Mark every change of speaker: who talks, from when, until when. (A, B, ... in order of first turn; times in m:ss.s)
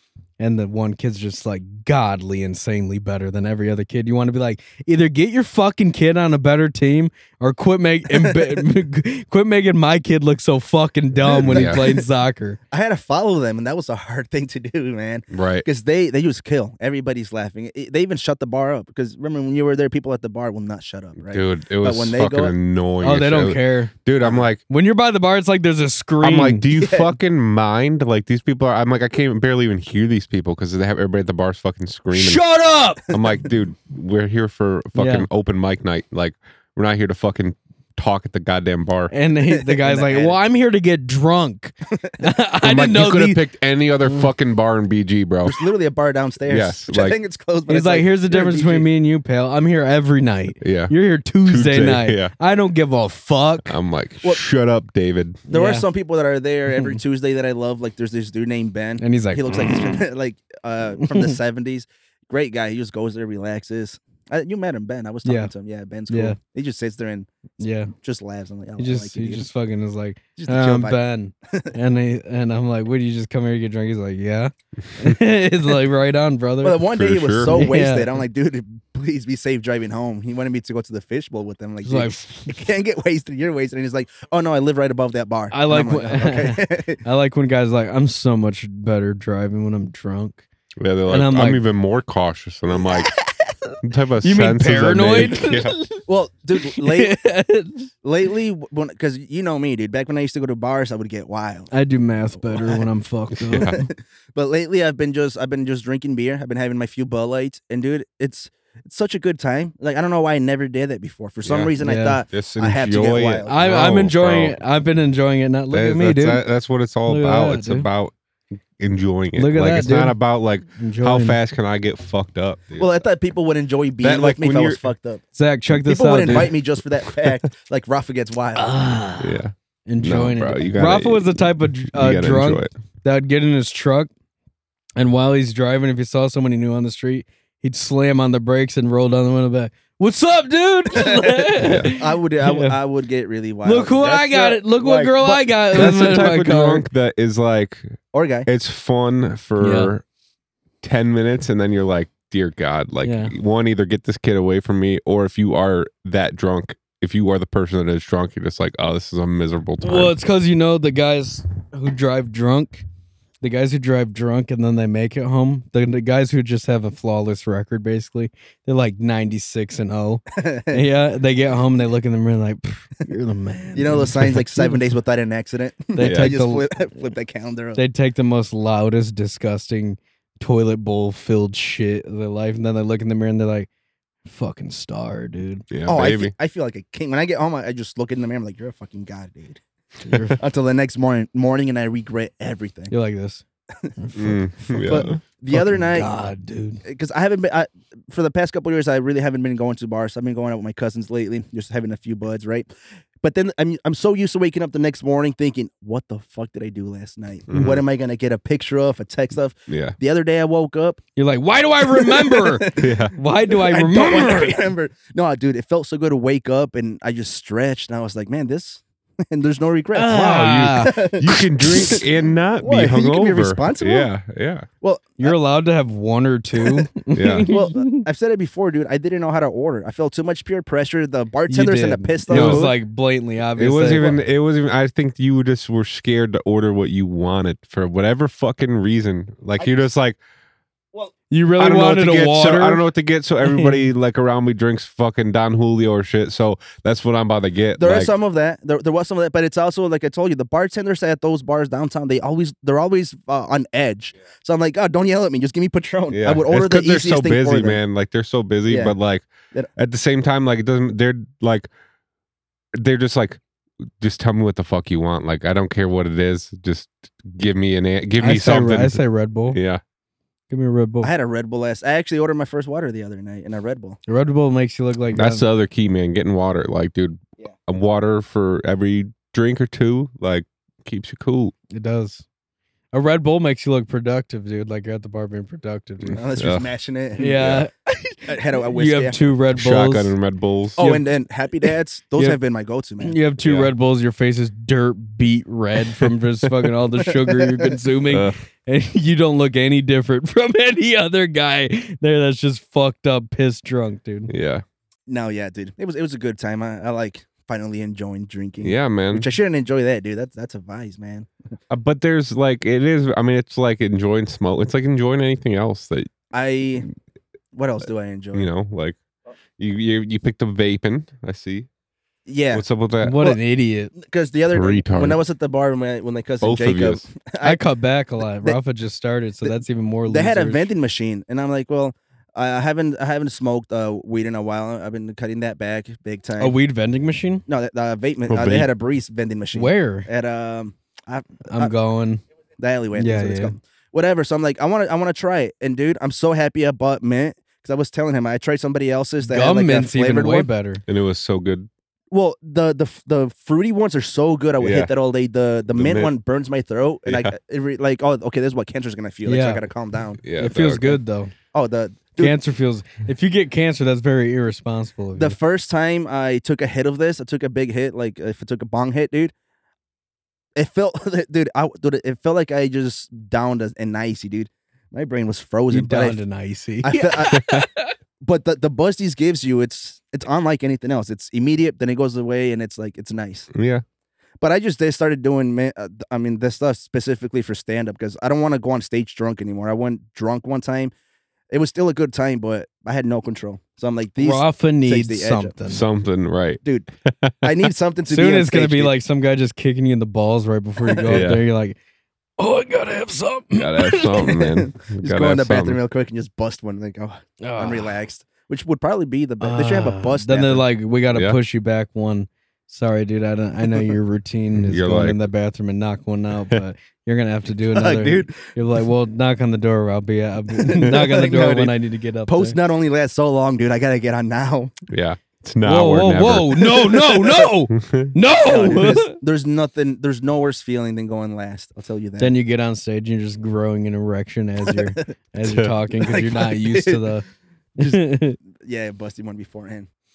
0:00.4-0:12.6 A
0:08.1-0:08.6 B
0:11.2-0:12.0 B
0:11.5-0:11.8 C
0:12.7-0:22.6 B
0:15.3-0:15.7 C
0:21.3-0:24.6 C
0:23.0-0:23.9 A
0:24.7-0:26.7 A
0:26.2-0:32.4 C
0:26.8-0:27.1 B
0:32.1-0:33.1 A
0:33.1-0:39.1 C
0:35.0-0:35.3 A
0:39.1-0:43.4 A
0:39.5-0:40.4 B
0:42.6-0:45.6 C
0:45.4-0:48.9 B
0:46.5-0:47.2 C
0:47.7-0:53.7 A
0:50.6-0:50.9 C
0:51.4-0:52.3 C
0:53.7-0:55.4 C
0:55.5-1:07.3 B
0:55.5-0:55.9 A
0:59.0-0:59.5 A
1:01.0-1:01.4 A
1:05.2-1:05.5 A
1:06.1-1:06.4 A
1:07.6-1:07.9 A
1:07.9-1:09.5 B
1:08.8-1:16.8 A
1:10.4-1:11.8 B
1:16.6-1:27.0 B
1:17.0-1:17.6 C
1:17.5-1:18.2 A
1:21.8-1:22.6 A
1:25.5-1:30.4 A
1:30.8-1:33.1 C
1:31.1-1:31.6 A
1:33.8-1:35.7 C
1:34.2-1:36.0 A
1:36.1-1:37.2 B
1:36.7-1:37.9 A
1:38.0-1:41.7 B
1:41.7-1:43.8 A
1:42.4-1:42.9 B
1:43.5-1:43.8 C
1:43.6-1:53.5 B
1:51.4-1:51.8 C
1:51.8-1:52.2 A
1:52.3-1:54.6 C
1:53.5-1:56.4 A
1:55.7-1:58.1 C
1:57.1-1:57.9 A
1:58.8-2:03.0 C
1:59.4-2:00.2 A
2:00.8-2:01.4 A
2:02.8-2:08.7 B
2:04.0-2:04.8 C
2:05.4-2:06.6 A
2:08.6-2:14.1 A
2:09.2-2:12.7 C
2:15.0-2:22.8 A
2:20.9-2:26.3 B
2:21.6-2:21.9 C
2:23.6-2:26.9 A
2:25.7-2:30.0 C
2:28.1-2:28.5 B
2:29.6-2:29.9 A
2:30.8-2:40.1 C
2:33.0-2:33.3 A
2:39.8-2:42.8 A
2:43.4-2:54.8 A
2:50.4-2:50.8 B
2:53.8-2:57.8 B
2:55.9-2:56.7 A
2:56.0-2:56.3 C
2:57.8-3:03.7 A
3:04.3-3:05.7 A
3:05.7-3:06.3 C
3:05.9-3:09.6 B
3:10.0-3:10.4 A
3:10.4-3:12.9 B
3:12.9-3:13.4 A
3:14.0-3:16.8 A
3:14.2-3:15.2 C
3:14.8-3:16.1 B
3:16.8-3:22.7 B
3:23.2-3:31.0 B
3:27.5-3:27.8 C
3:29.7-3:30.0 C
3:31.2-3:34.7 A
3:31.8-3:44.1 B
3:32.8-3:33.1 C
3:39.9-3:41.1 A
3:40.2-3:44.7 C
3:41.7-3:42.0 A
3:44.8-3:45.4 B
3:45.2-3:48.0 A
3:47.1-3:47.5 C
3:47.5-3:52.7 B
3:51.5-3:54.2 A
3:52.3-3:52.7 C
3:53.6-4:00.2 C
4:01.3-4:02.8 A
4:01.6-4:08.1 C
4:03.4-4:03.8 A
4:07.8-4:17.8 B
4:16.1-4:21.7 C
4:18.7-4:19.0 B
4:22.8-4:23.4 C
4:24.0-4:29.0 C
4:28.2-4:29.6 A
4:29.5-4:29.8 C
4:30.5-4:31.1 A
4:31.0-4:34.0 B
4:34.1-4:35.4 A
4:35.1-4:41.5 C
4:41.7-4:42.2 A
4:42.9-4:46.2 A
4:46.2-4:47.4 B
4:46.4-4:46.7 C
4:47.2-4:50.2 A
4:47.2-4:47.6 C
4:48.3-4:49.3 B
4:49.6-4:50.8 C
4:50.8-4:53.2 B
4:53.0-5:04.3 A
4:53.4-4:53.7 C
4:57.1-4:57.7 B
4:58.1-4:58.4 C
5:04.3-5:04.6 C
5:05.1-5:11.3 B
5:08.6-5:09.3 C
5:11.7-5:16.1 C
5:16.3-5:16.9 B
5:17.5-5:18.5 B
5:18.3-5:19.0 C
5:19.6-5:21.7 C
5:22.3-5:22.6 B
5:22.5-5:23.3 C
5:23.0-5:23.9 A
5:23.9-5:27.6 B
5:24.5-5:25.2 C
5:26.4-5:27.1 C
5:27.4-5:30.7 A
5:29.4-5:36.6 B
5:36.4-5:37.4 A
5:37.5-5:41.7 B
5:38.3-5:38.7 C
5:39.5-5:40.1 A
5:41.5-5:42.2 A
5:42.6-5:50.5 B
5:43.0-5:43.6 A
5:49.2-5:50.8 A
5:50.9-5:51.7 C
5:52.1-6:00.2 B
5:54.6-5:54.9 C
5:55.7-5:56.1 C
5:57.1-5:57.4 C
5:59.3-5:59.6 A
6:00.2-6:01.0 C
6:00.4-6:01.3 A
6:01.5-6:02.4 B
6:02.2-6:05.4 A
6:05.2-6:09.3 B
6:10.6-6:16.2 B
6:15.7-6:17.9 A
6:16.8-6:17.6 B
6:17.4-6:17.6 C
6:18.2-6:23.5 B
6:23.5-6:23.8 C
6:24.4-6:30.9 B
6:31.5-6:35.5 B
6:34.2-6:35.8 A
6:35.7-6:36.6 C
6:36.6-6:36.9 B
6:37.2-6:37.6 C
6:37.4-6:39.0 B
6:38.1-6:41.8 A
6:40.8-6:41.2 B
6:41.1-6:41.4 C
6:42.4-6:44.3 A
6:43.6-6:45.8 C
6:44.3-6:50.6 B
6:47.4-6:47.9 A
6:49.4-7:02.6 A
6:54.6-6:55.2 C
6:57.7-6:58.5 B
7:00.6-7:04.7 B
7:04.9-7:06.8 C
7:05.6-7:09.2 A
7:06.8-7:07.5 B
7:07.7-7:08.1 C
7:08.4-7:12.3 B
7:12.2-7:17.3 A
7:14.7-7:15.0 B
7:15.4-7:15.7 C
7:16.0-7:17.1 B
7:17.8-7:19.9 B
7:17.8-7:18.4 A